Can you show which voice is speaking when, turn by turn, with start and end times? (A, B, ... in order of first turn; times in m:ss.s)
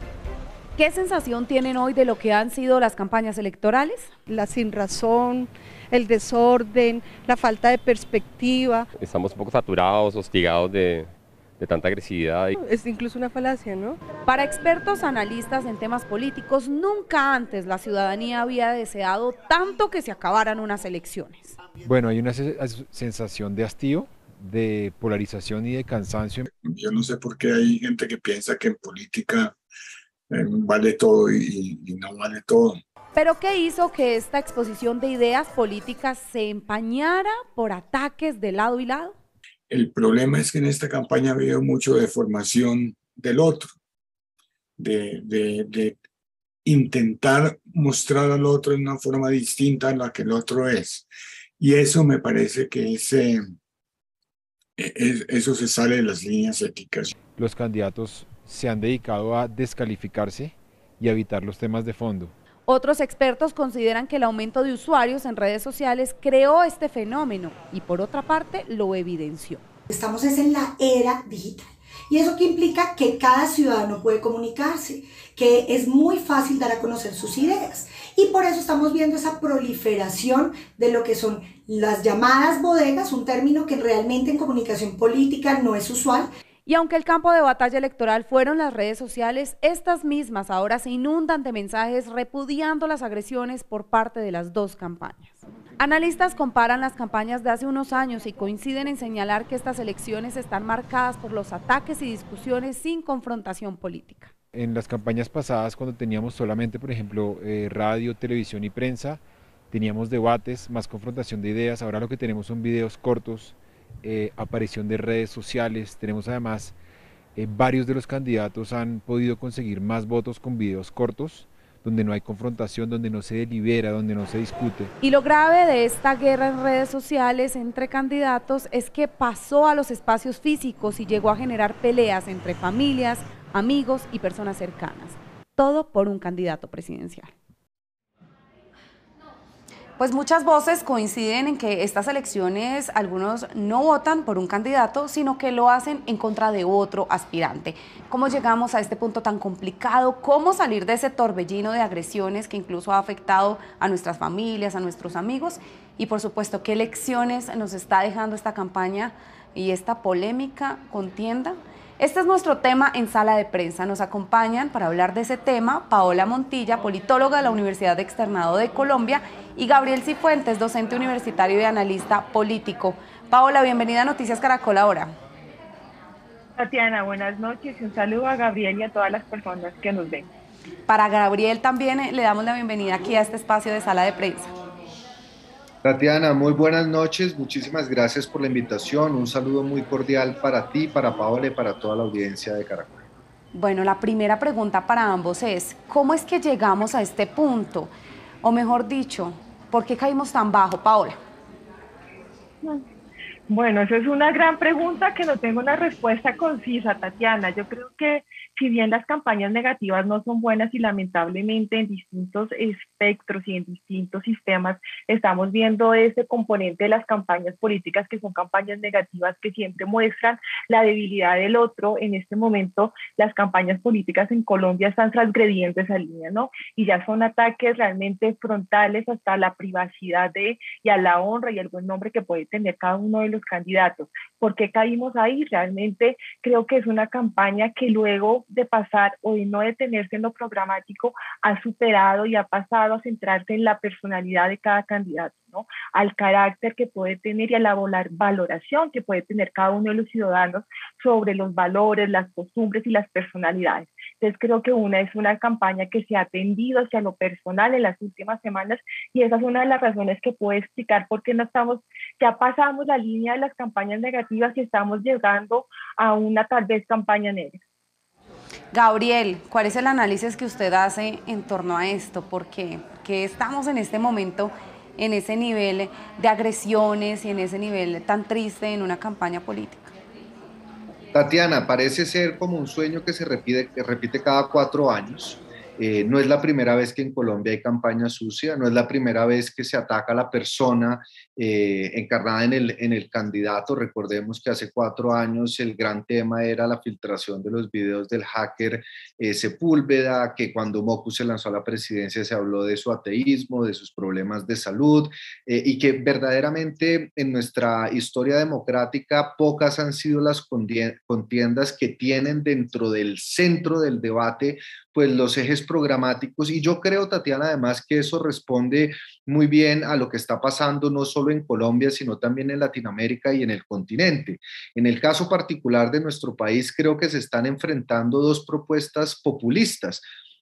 0:00.8-0:04.1 A
0:04.3-0:08.9 B
0:09.0-0:11.1 C
0:11.6-0:12.6 C
0:12.6-0:14.0 B
0:14.3-0:21.6 A
0:21.8-0:26.5 D
0:26.6-0:29.6 E
0:30.3-0:32.8 E
0:33.2-0:39.2 A
0:39.7-0:43.7 E
0:44.8-0:46.0 E
0:46.6-0:51.1 E
0:51.6-0:53.5 E
0:54.8-0:57.1 E
0:57.4-1:02.3 D
1:02.7-1:09.6 A
1:09.9-1:26.3 F
1:26.7-1:44.3 A
1:44.5-1:56.8 D
1:57.4-2:04.9 D
2:05.0-2:17.3 A
2:20.0-2:55.1 A
2:56.6-3:00.3 G
3:00.9-3:04.5 A
3:05.8-3:13.0 H
3:13.5-3:17.9 A
3:18.4-3:21.2 A
3:23.5-4:27.6 G
4:28.7-4:39.9 A
4:41.1-5:30.0 H